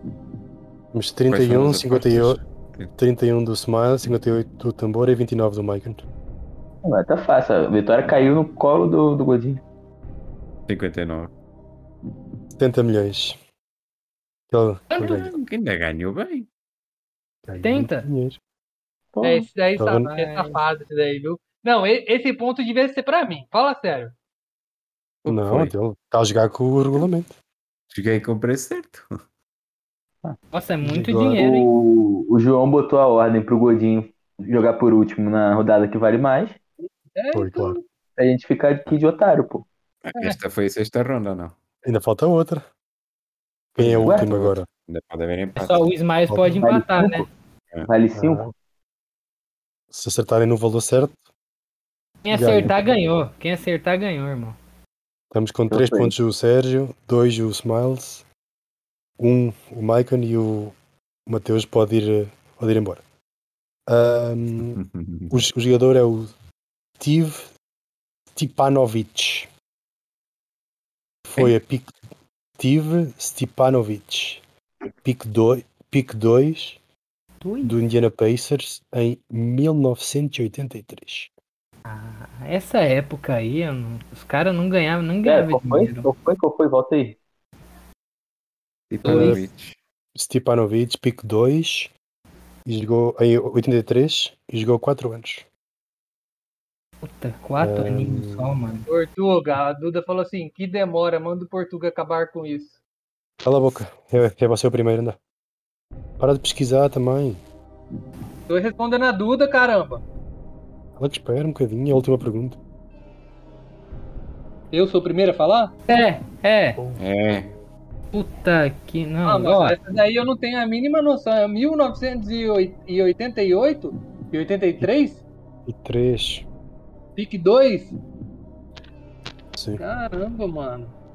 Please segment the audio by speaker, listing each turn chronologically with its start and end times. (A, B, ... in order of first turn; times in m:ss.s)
0:00.9-0:02.4 A
0:01.3-0:02.9 B
0:03.0-0:06.0 A
0:06.8-0:09.6 C
0:10.7-0:11.3 B
0:12.6-0:13.4 A
0:14.5-0:15.3 A
0:15.0-0:16.5 B
0:17.4-0:18.4 A
0:17.6-0:18.1 D
0:19.2-0:19.5 C
0:19.2-0:24.1 E
0:19.8-0:20.1 A
0:20.1-0:20.6 D
0:25.2-0:25.7 B
0:25.3-0:27.4 A
0:27.9-0:29.1 B
0:30.5-0:31.7 D
0:30.8-0:31.4 A
0:31.4-0:36.6 C
0:37.2-0:37.8 E
0:37.3-0:37.8 A
0:38.2-0:39.7 C
0:40.1-0:41.6 B
0:41.8-0:42.6 A
0:43.8-0:44.7 A
0:43.8-0:45.8 B
0:44.0-0:44.3 C
0:45.6-0:47.3 D
0:46.3-0:46.6 A
0:46.6-0:47.2 C
0:47.9-0:48.4 C
0:48.1-0:48.5 A
0:49.9-0:51.2 A
0:52.2-0:54.6 D
0:52.3-0:52.8 A
0:55.3-0:58.2 A
0:55.7-0:56.1 C
0:59.2-1:00.8 A
1:01.3-1:03.0 A
1:03.9-1:04.8 A
1:04.7-1:05.4 B
1:05.3-1:06.3 A
1:07.0-1:07.5 A
1:08.3-1:09.5 A
1:11.3-1:12.0 A
1:12.6-1:14.4 A
1:15.0-1:16.8 A
1:17.4-1:17.8 D
1:17.6-1:21.3 A
1:21.9-1:26.1 D
1:25.2-1:27.2 C
1:28.9-1:29.8 B
1:29.0-1:29.4 D
1:29.0-1:29.4 A
1:30.2-1:31.9 A
1:32.7-1:35.4 A
1:37.0-1:38.9 D
1:37.6-1:38.5 A
1:38.9-1:42.8 E
1:43.4-1:45.2 A
1:46.2-1:47.4 A
1:48.5-1:50.0 E
1:51.0-1:52.6 A
1:54.7-1:55.7 E
1:55.9-1:56.8 D
1:57.0-1:57.5 B
1:58.1-1:59.8 D
1:59.2-2:05.2 E
2:05.7-2:06.5 A
2:07.2-2:08.0 E
2:09.6-2:09.8 A
2:09.8-2:10.9 E